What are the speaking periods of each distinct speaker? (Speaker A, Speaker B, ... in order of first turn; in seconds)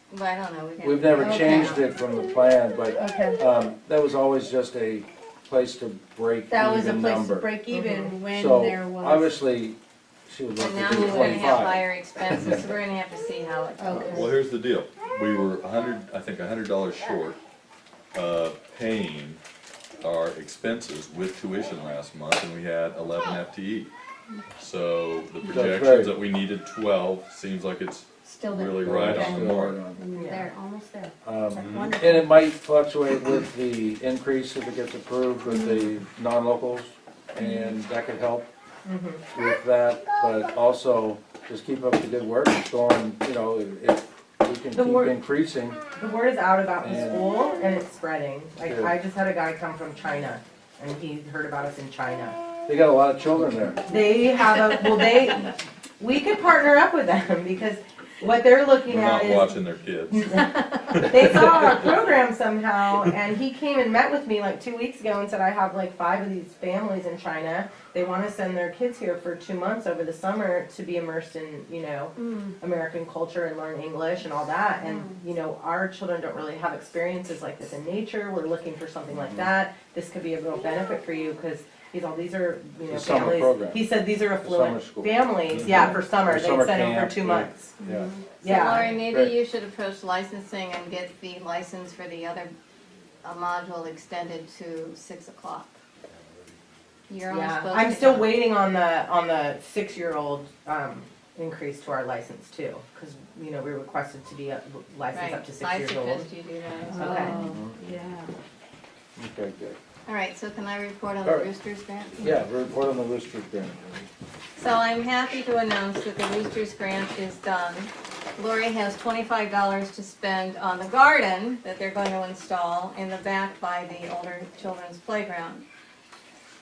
Speaker A: 0.1-1.8, 10.6-14.3, 88.4-92.5, 93.2-95.8, 97.1-98.3, 105.1-107.4, 110.1-112.4, 114.6-125.7
Speaker B: 0.8-7.5, 8.3-11.8, 25.5-26.1, 28.8-30.0, 31.2-38.5, 39.3-45.8, 46.8-47.3, 48.6-49.0, 52.7-53.8, 79.2-79.5, 82.9-83.8, 84.4-88.1, 89.1-89.3, 107.4-107.7, 109.2-109.8, 111.2-111.5, 112.2-114.1
Speaker C: 1.2-1.8, 3.0-3.4, 6.5-9.4, 13.8-14.3, 28.3-32.3, 35.5-35.9, 37.4-37.7, 72.2-72.5, 74.8-75.1, 87.8-88.2, 106.8-108.3
Speaker D: 7.7-8.1, 30.1-30.5, 38.8-39.2, 44.7-45.1, 45.9-52.4, 53.9-59.5, 60.1-87.7, 88.4-89.0, 97.3-106.3, 107.0-107.3
Speaker E: 14.1-17.4, 18.1-19.4, 20.0-23.9, 24.6-29.8, 58.9-60.4, 60.9-61.9